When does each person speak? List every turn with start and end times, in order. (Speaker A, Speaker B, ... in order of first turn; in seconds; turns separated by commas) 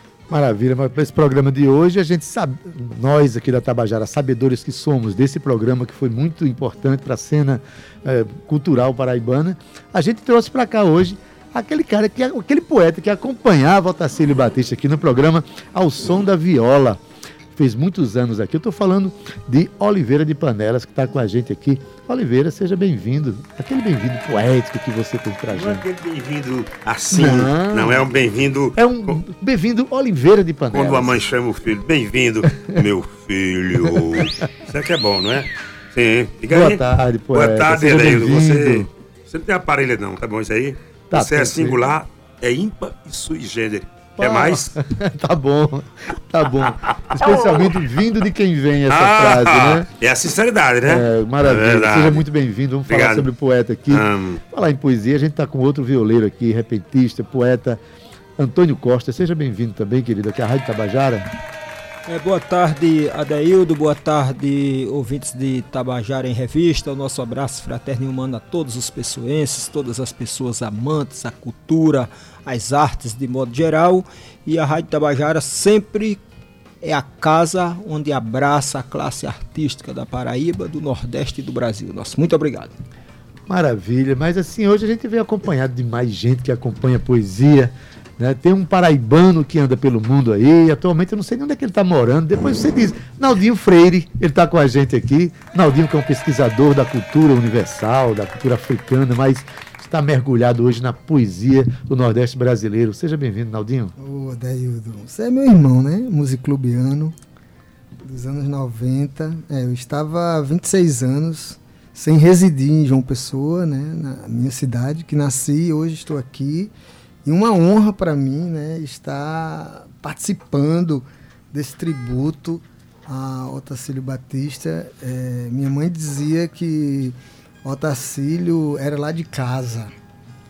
Speaker A: 0.3-17.0, Speaker A: 17.5-25.8, Speaker B: 25.5-29.1, Speaker A: 27.1-28.1, Speaker A: 28.7-31.2, Speaker B: 30.7-36.8, Speaker A: 36.5-38.9, Speaker B: 37.3-44.8, Speaker A: 41.1-41.9, Speaker A: 44.2-49.9, Speaker B: 47.1-47.8, Speaker B: 48.9-52.2, Speaker A: 50.9-57.8, Speaker B: 52.9-53.3, Speaker B: 53.9-54.4, Speaker A: 58.4-61.3, Speaker C: 62.1-76.2, Speaker C: 76.8-82.7, Speaker A: 83.5-103.9, Speaker D: 104.0-107.1, Speaker D: 108.0-116.7, Speaker D: 117.2-129.9